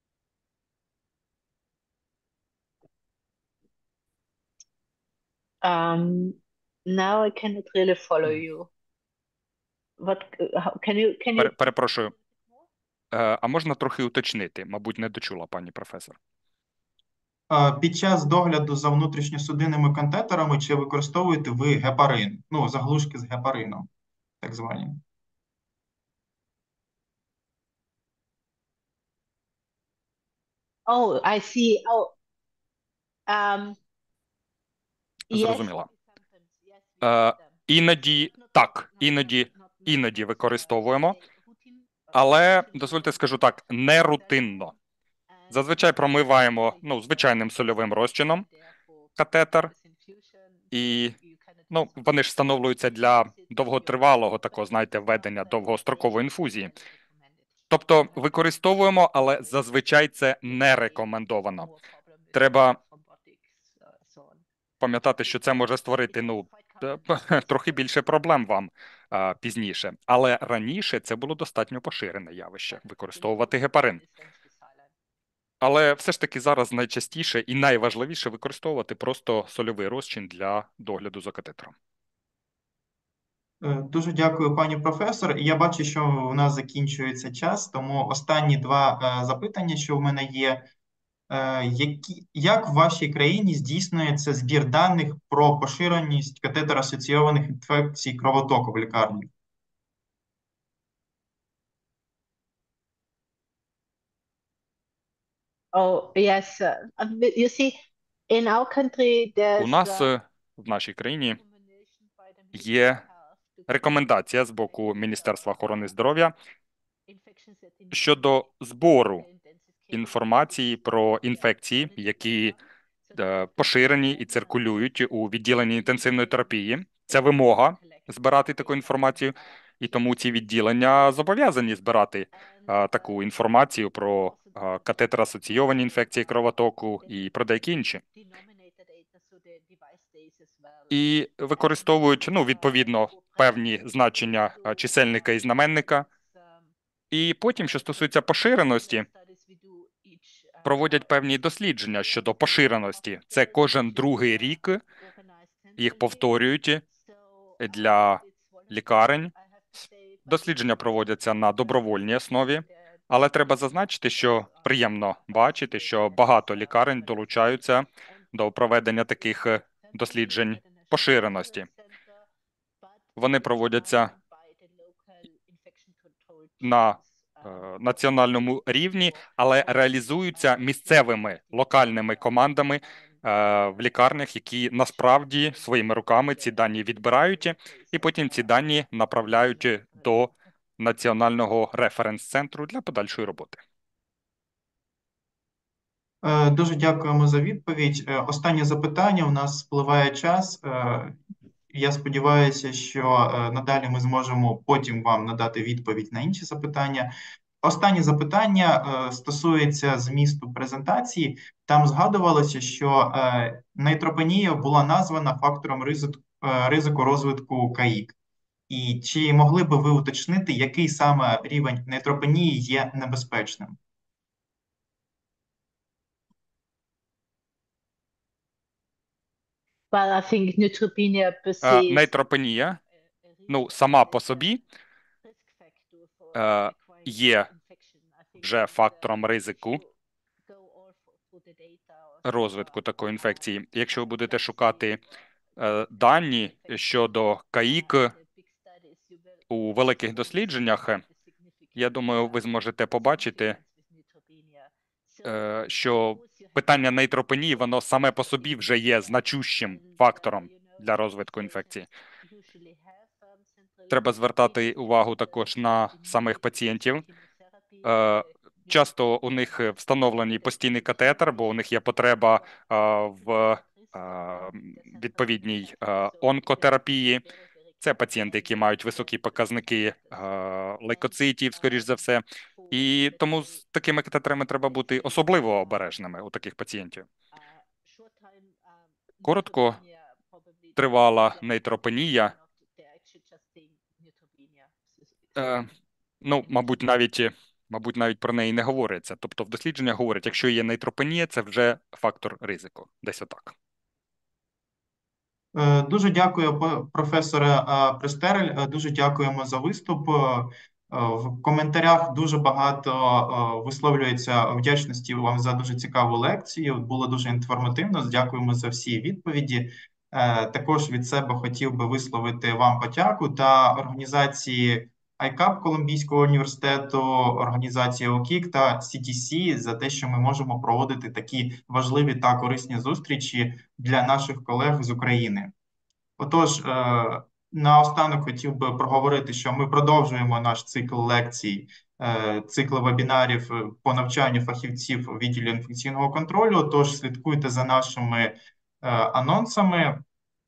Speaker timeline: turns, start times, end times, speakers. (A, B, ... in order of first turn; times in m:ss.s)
0:05.6-0:08.7 A
0:10.0-0:11.5 A
0:11.4-0:12.1 B
0:13.1-0:16.2 B
0:17.5-0:23.9 C
0:24.4-0:25.0 C
0:30.8-0:32.1 A
0:33.3-0:33.8 A
0:35.3-0:37.0 A
0:35.3-0:35.9 B
0:37.0-0:41.2 B
0:39.1-0:43.2 A
0:42.1-0:44.7 B
0:44.4-0:44.7 A
0:45.5-0:46.7 A
0:45.5-0:48.4 B
0:49.2-0:49.7 B
0:49.7-0:51.7 A
0:50.7-0:51.1 B
0:51.7-0:56.7 B
0:53.3-0:54.0 A
0:54.6-0:57.4 A
0:57.7-1:01.7 B
1:01.6-1:04.4 A
1:02.3-1:02.8 B
1:04.8-1:14.0 B
1:06.1-1:07.8 A
1:13.2-1:14.9 A
1:15.6-1:21.7 B
1:23.6-1:30.7 C
1:31.3-1:39.3 C
1:45.7-1:50.1 A
1:49.6-1:51.4 B
1:51.4-1:53.7 A
1:52.5-1:53.0 B
1:53.7-1:56.3 B
1:54.9-1:55.2 A
1:57.1-1:57.9 A
1:57.9-1:59.2 B
1:59.2-2:00.5 A
1:59.9-2:02.5 B
2:02.2-2:02.6 A
2:03.1-2:04.7 A
2:03.2-2:18.0 B
2:05.9-2:06.2 A
2:07.9-2:09.2 A
2:15.7-2:16.2 A
2:18.1-2:20.9 A
2:20.9-2:26.0 B
2:22.7-2:23.2 A
2:24.6-2:25.6 A
2:27.1-2:29.0 B
2:27.8-2:28.0 A
2:28.7-2:31.0 A
2:30.6-2:34.8 B
2:33.3-2:35.9 A
2:35.8-2:36.8 B
2:37.0-2:37.6 A
2:37.6-2:39.3 B
2:40.3-2:51.7 B
2:45.5-2:47.0 A
2:50.1-2:51.9 A
2:53.0-2:57.4 A
2:53.2-2:54.1 B
2:56.6-3:13.6 B
3:05.9-3:08.5 A
3:09.8-3:10.3 A
3:16.2-3:21.2 C
3:21.7-3:38.1 C
3:38.7-3:43.8 C
3:49.9-3:52.1 A
3:51.6-3:52.8 B
3:53.4-3:54.4 A
3:53.5-3:54.6 B
3:55.2-3:58.4 A
3:56.3-3:57.5 B
3:58.4-3:59.8 B
4:00.5-4:02.2 A
4:02.2-4:05.0 B
4:03.1-4:03.3 A
4:04.1-4:04.7 A
4:05.6-4:08.1 B
4:08.1-4:09.5 A
4:09.5-4:11.0 B
4:10.3-4:12.3 A
4:11.8-4:13.6 B
4:13.2-4:15.2 A
4:15.2-4:21.9 B
4:20.5-4:21.6 A
4:22.2-4:28.2 A
4:23.9-4:27.0 B
4:27.8-4:37.2 B
4:30.5-4:31.5 A
4:33.6-4:36.5 A
4:37.2-4:38.7 A
4:37.8-4:47.1 B
4:39.2-4:40.0 A
4:41.6-4:42.0 A
4:42.6-4:43.3 A
4:44.8-4:45.6 A
4:47.8-4:48.6 A
4:49.2-4:51.1 A
4:49.2-4:49.8 B
4:50.8-4:52.3 B
4:52.3-4:55.6 A
4:55.4-4:55.7 B
4:56.2-5:03.5 B
5:05.5-5:35.5 C
5:36.2-5:50.0 C